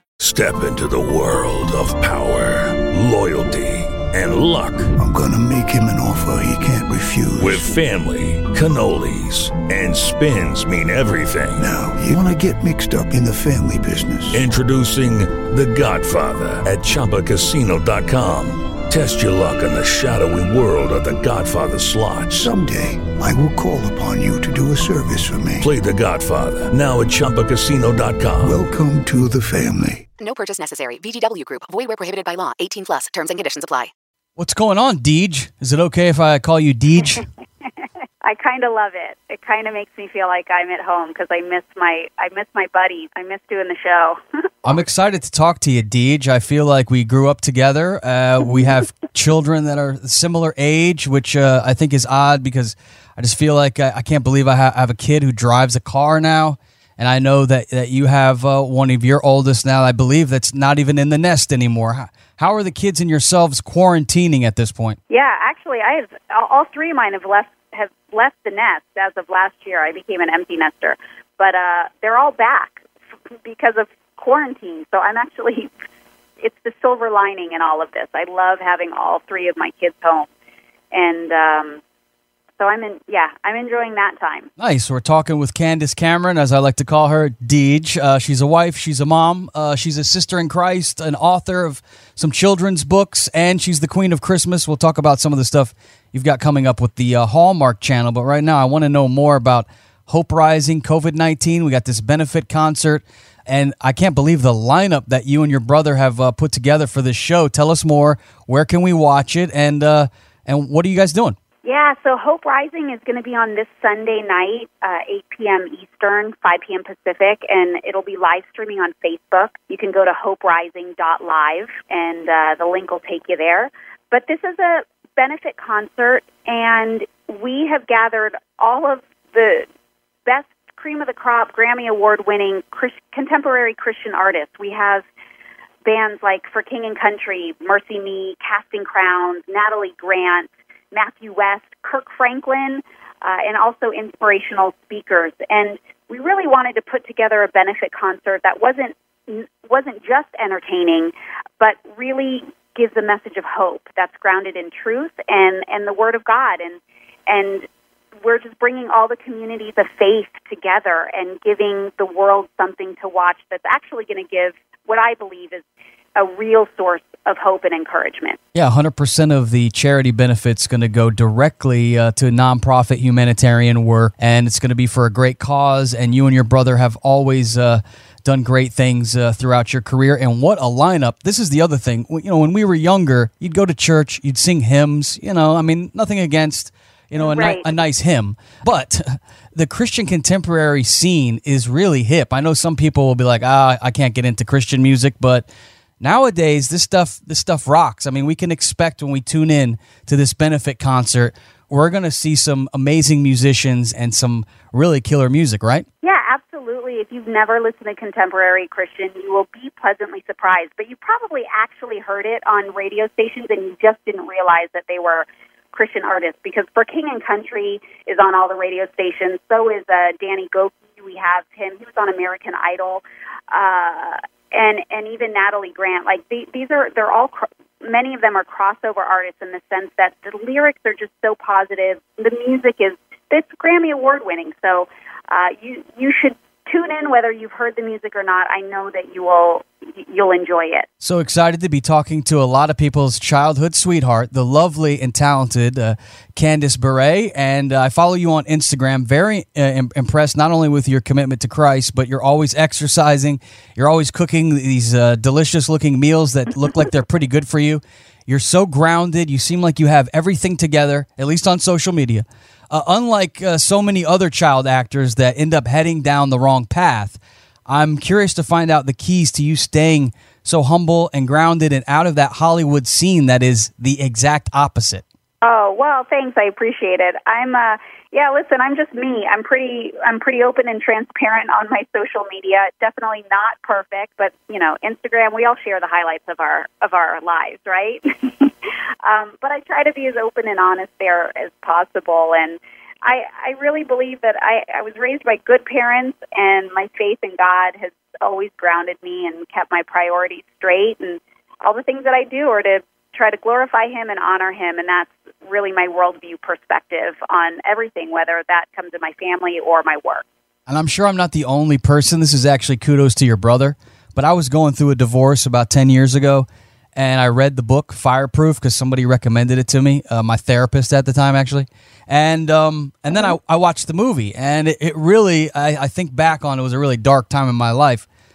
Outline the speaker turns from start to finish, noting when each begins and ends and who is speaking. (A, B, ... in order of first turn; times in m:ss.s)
0:00.2-0:04.9 A
0:05.0-0:07.7 B
0:07.4-0:11.7 A
0:11.6-0:14.5 B
0:14.3-0:22.5 A
0:22.3-0:25.7 B
0:25.6-0:28.6 A
0:28.4-0:30.0 B
0:30.2-0:33.9 C
0:34.4-0:37.2 D
0:38.2-0:44.2 E
0:44.6-1:05.0 D
1:05.1-1:12.8 E
1:13.4-1:15.7 E
1:16.4-1:20.3 E
1:20.9-1:21.8 E
1:22.6-1:24.5 E
1:24.6-1:51.4 D
1:51.6-2:09.7 E
2:10.3-2:15.1 E
2:15.8-2:37.6 E
2:38.2-2:45.6 E
2:46.2-2:48.4 E
2:48.6-3:15.5 D
3:07.2-3:07.6 E
3:16.0-3:25.9 D
3:26.0-4:00.9 E
4:01.0-4:35.0 D
4:35.4-4:48.5 E
4:49.0-5:10.2 E
5:10.7-5:28.1 D